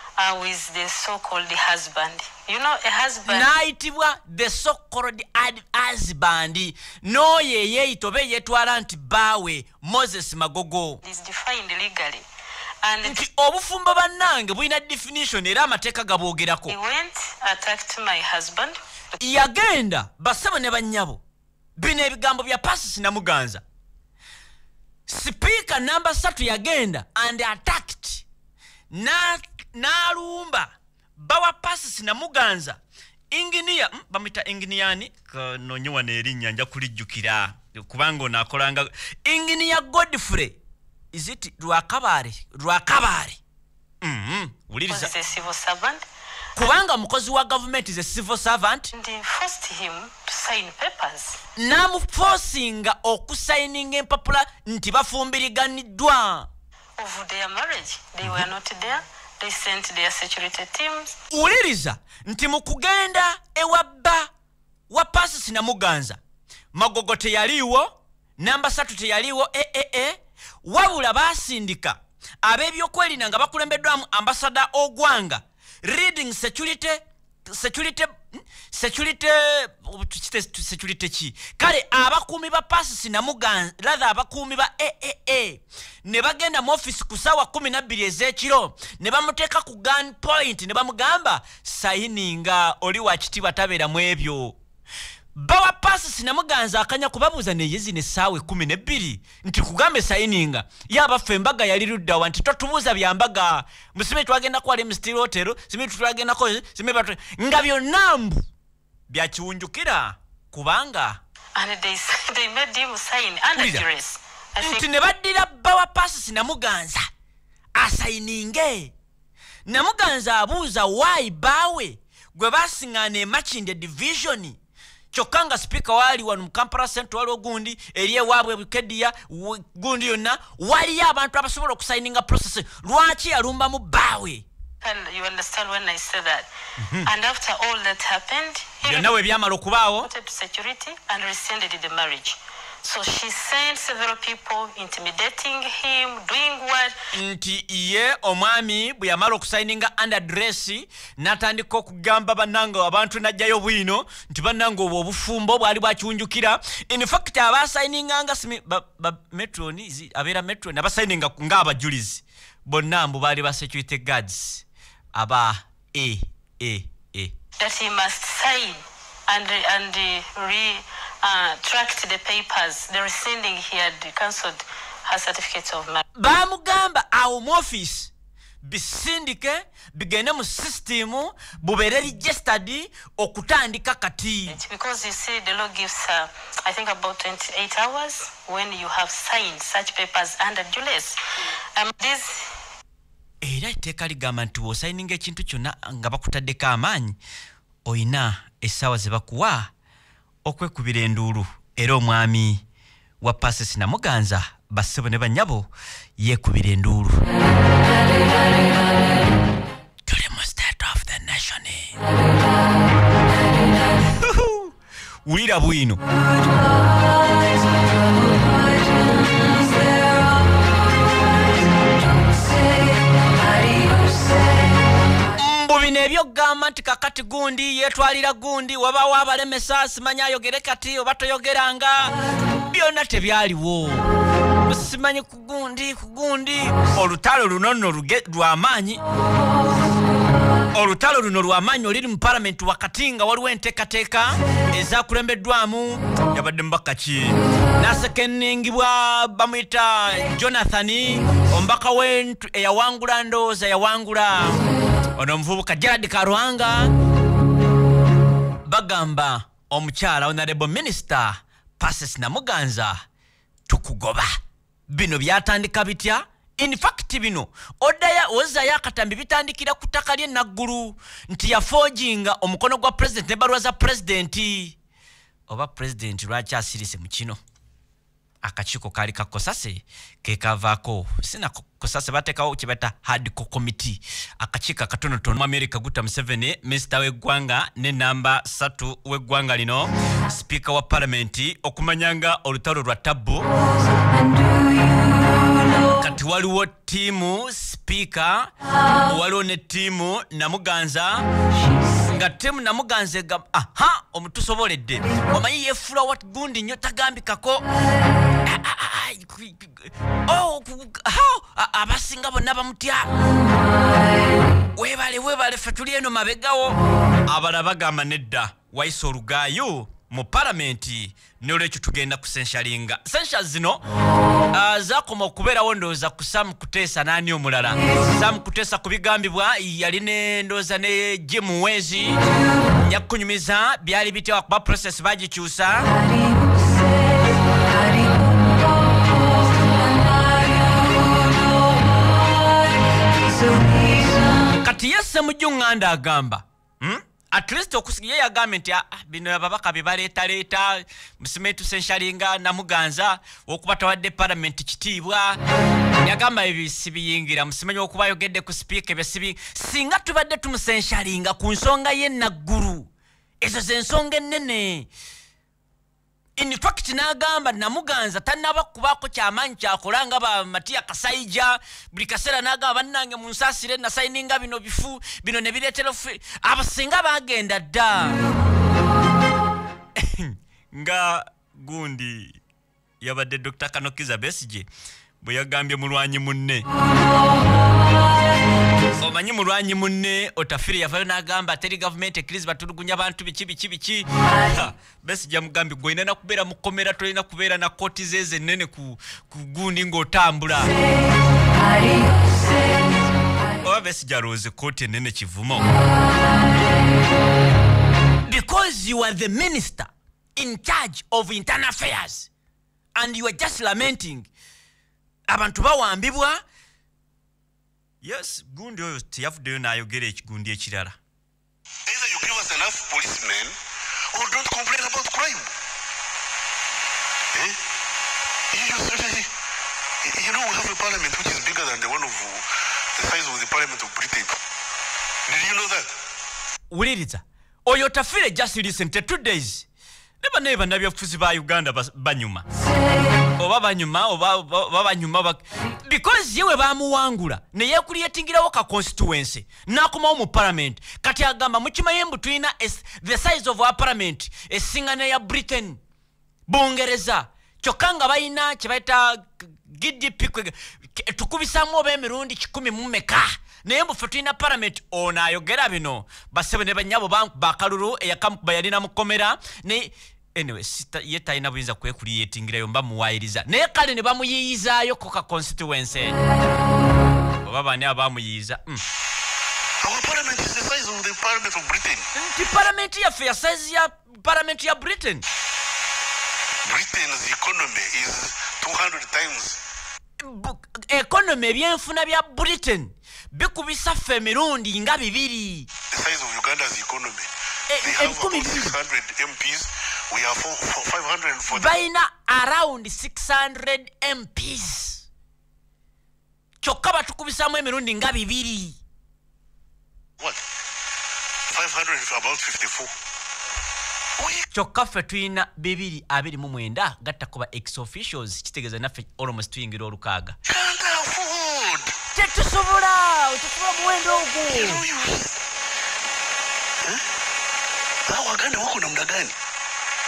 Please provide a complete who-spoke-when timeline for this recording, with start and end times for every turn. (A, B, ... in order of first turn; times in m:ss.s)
0:00.2-0:03.5 A
0:03.2-0:11.0 B
0:11.0-0:12.2 A
0:12.8-0:13.2 A
0:13.0-0:16.7 B
0:16.7-0:18.8 A
0:19.2-0:21.2 B
0:21.8-0:23.6 B
0:25.1-0:28.2 B
0:28.9-0:32.8 B
0:33.3-0:40.6 B
0:41.1-0:43.4 B
0:44.0-0:45.1 B
0:44.9-0:46.0 A
0:46.6-0:48.9 B
0:48.9-0:51.4 A
0:51.6-0:56.5 B
0:57.0-1:01.1 A
1:01.3-1:04.3 B
1:04.9-1:06.2 B
1:06.7-1:34.6 B
1:35.4-1:48.4 B
1:49.1-1:51.2 B
1:51.5-1:54.8 A
1:53.5-1:53.8 B
1:54.6-1:57.0 B
1:57.8-1:58.9 B
1:59.7-2:04.6 B
2:05.1-2:14.4 B
2:14.8-2:16.5 A
2:16.8-2:17.1 B
2:17.0-2:19.1 A
2:18.8-2:20.1 B
2:20.0-2:26.9 A
2:27.1-2:47.3 B
2:47.6-2:56.0 A
2:56.2-2:58.1 B
2:58.6-3:04.6 B
3:04.5-3:11.2 A
3:11.8-3:12.4 A
3:13.4-3:17.2 B
3:17.8-3:19.7 B
3:20.4-3:22.6 B
3:23.2-3:27.2 B
3:30.0-3:31.9 B
3:34.2-3:34.7 B
3:35.2-3:36.0 B
3:45.4-3:52.1 B
3:52.7-3:54.1 B
3:54.6-3:59.0 B
4:00.7-4:14.6 B
4:15.2-4:16.9 B
4:18.6-4:23.0 B
4:23.7-4:24.3 B
4:24.9-4:34.8 B
4:35.5-4:37.4 B
4:38.4-4:53.4 B
4:55.9-4:58.5 B
4:59.0-5:01.2 B
5:02.0-5:07.6 B
5:08.4-5:13.1 B
5:14.7-5:23.8 B
5:24.5-5:32.2 B
5:32.8-5:35.9 B
5:44.6-5:55.4 B
5:56.0-6:02.9 B
6:03.4-6:04.9 B
6:06.4-6:18.2 B
6:20.0-6:22.4 B
6:23.0-6:24.7 B
6:25.2-6:26.6 B
6:29.0-6:40.7 B
6:43.6-6:45.7 B
6:48.2-6:52.3 B
6:53.0-6:54.3 B
6:55.3-6:56.4 B
6:58.0-7:01.0 B
7:01.9-7:03.6 C
7:04.1-7:05.5 C
7:07.3-7:07.6 C
7:08.5-7:09.3 C
7:10.0-7:14.4 C
7:15.2-7:15.9 C
7:16.7-7:19.6 B
7:20.2-7:22.4 B
7:23.4-7:35.8 B
7:36.5-7:56.2 B
7:57.4-7:58.8 B
7:59.8-8:02.1 C
8:02.1-8:05.2 B
8:06.6-8:09.6 C
8:10.2-8:15.7 B
8:15.9-8:21.7 C
8:17.7-8:18.8 B
8:21.5-8:25.0 B
8:26.6-8:28.8 B
8:31.5-8:32.9 C
8:34.5-8:40.4 B
8:40.4-8:41.9 C
8:42.1-8:44.8 B
8:44.5-8:45.4 C
8:48.0-8:49.3 C